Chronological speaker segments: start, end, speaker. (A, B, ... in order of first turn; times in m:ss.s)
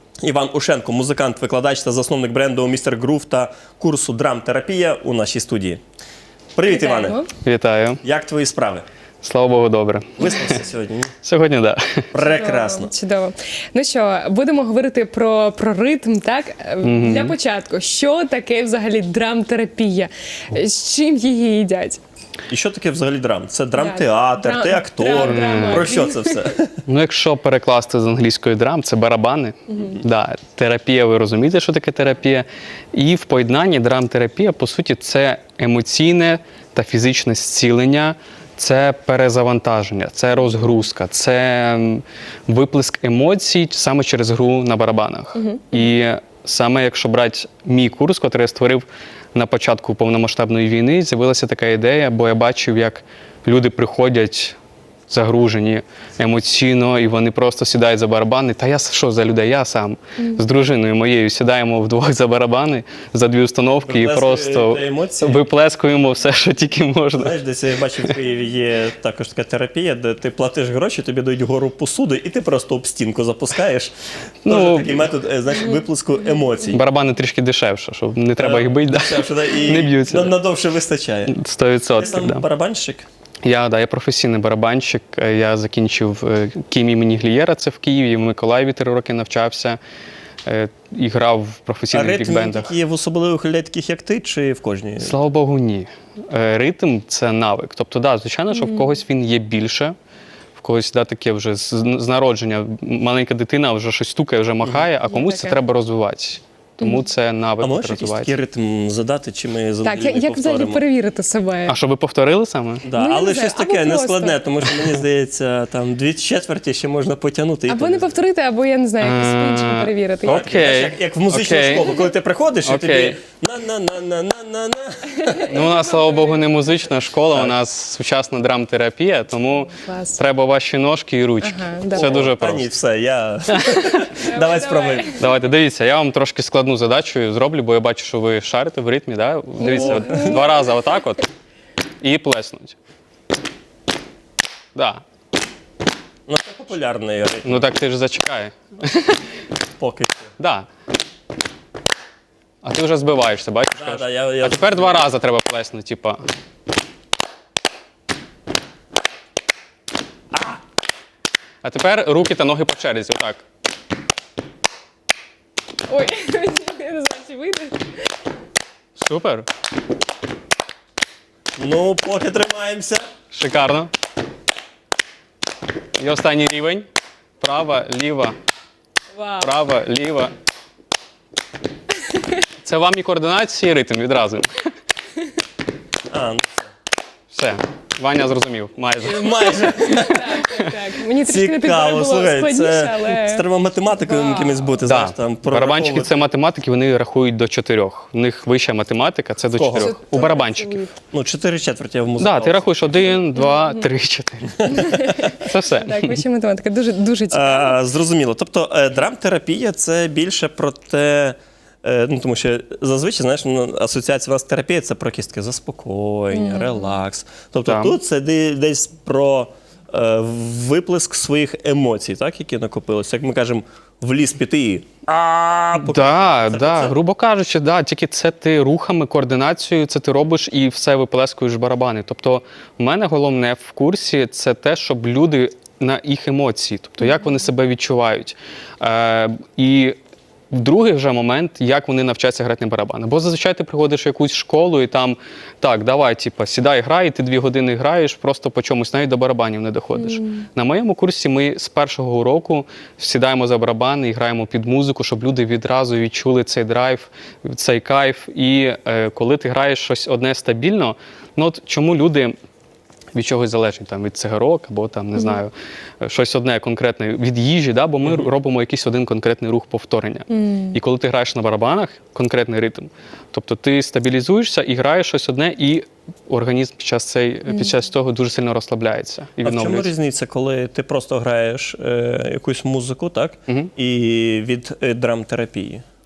0:00.2-0:05.8 A
0:06.6-0:07.2 A
0:06.6-0:07.3 B
0:07.4-0:08.0 C
0:08.0-0:08.8 A
0:09.2-0:10.6 C
0:10.2-0:11.1 A
0:11.2-0:12.1 C
0:12.1-0:12.9 A
0:12.2-0:22.0 B
0:16.8-0:17.3 C
0:22.5-0:26.8 A
0:23.7-0:26.5 B
0:25.1-0:25.8 C
0:26.8-0:54.6 C
0:45.4-0:45.7 B
0:55.1-1:07.4 C
1:03.8-1:05.4 A
1:07.2-1:16.8 A
1:14.4-1:15.1 C
1:16.7-1:20.3 C
1:18.4-1:21.4 A
1:21.3-1:22.4 C
1:22.0-1:23.1 A
1:23.4-1:29.8 C
1:30.4-1:32.7 C
1:31.9-1:35.1 A
1:35.0-1:39.9 C
1:38.6-1:38.9 B
1:40.6-1:48.3 C
1:45.1-1:45.5 B
1:47.6-1:50.8 A
1:49.8-1:51.7 B
1:51.7-1:52.9 C
1:52.8-1:58.1 A
1:52.9-1:54.4 B
1:57.7-2:00.5 B
1:59.0-2:01.9 C
2:00.2-2:05.7 A
2:02.6-2:03.2 C
2:05.4-2:12.7 C
2:07.3-2:07.6 A
2:09.7-2:10.2 B
2:11.4-2:12.1 B
2:11.9-2:15.2 A
2:13.5-2:14.1 C
2:14.2-2:15.2 B
2:15.1-2:21.2 C
2:19.6-2:20.5 B
2:19.7-2:20.3 A
2:22.0-2:22.8 C
2:24.7-2:25.0 C
2:26.3-2:27.7 A
2:27.4-2:29.2 C
2:29.8-2:30.3 A
2:30.4-2:30.6 C
2:32.6-2:36.2 C
2:33.7-2:35.0 A
2:40.3-2:40.6 A
2:41.6-2:43.4 C
2:45.8-2:48.1 B
2:49.0-2:49.4 C
2:51.6-2:53.1 A
2:53.3-2:53.9 C
2:56.0-2:56.9 C
2:57.4-2:58.4 C
2:59.2-2:59.4 B
2:59.4-3:00.3 C
3:02.0-3:02.3 B
3:02.6-3:04.7 C
3:06.1-3:06.7 A
3:07.3-3:10.7 C
3:09.0-3:10.3 A
3:09.6-3:13.4 B
3:11.2-3:16.1 A
3:14.1-3:14.6 B
3:14.8-3:20.8 C
3:19.5-3:20.2 A
3:19.7-3:20.9 B
3:21.1-3:22.7 A
3:22.2-3:26.1 C
3:24.6-3:27.8 B
3:27.3-3:47.0 A
3:36.3-3:37.0 B
3:37.6-3:38.0 C
3:45.8-4:00.0 C
4:00.5-4:22.3 C
4:10.1-4:10.4 B
4:23.1-4:39.9 C
4:30.3-4:30.8 B
4:39.4-4:45.8 A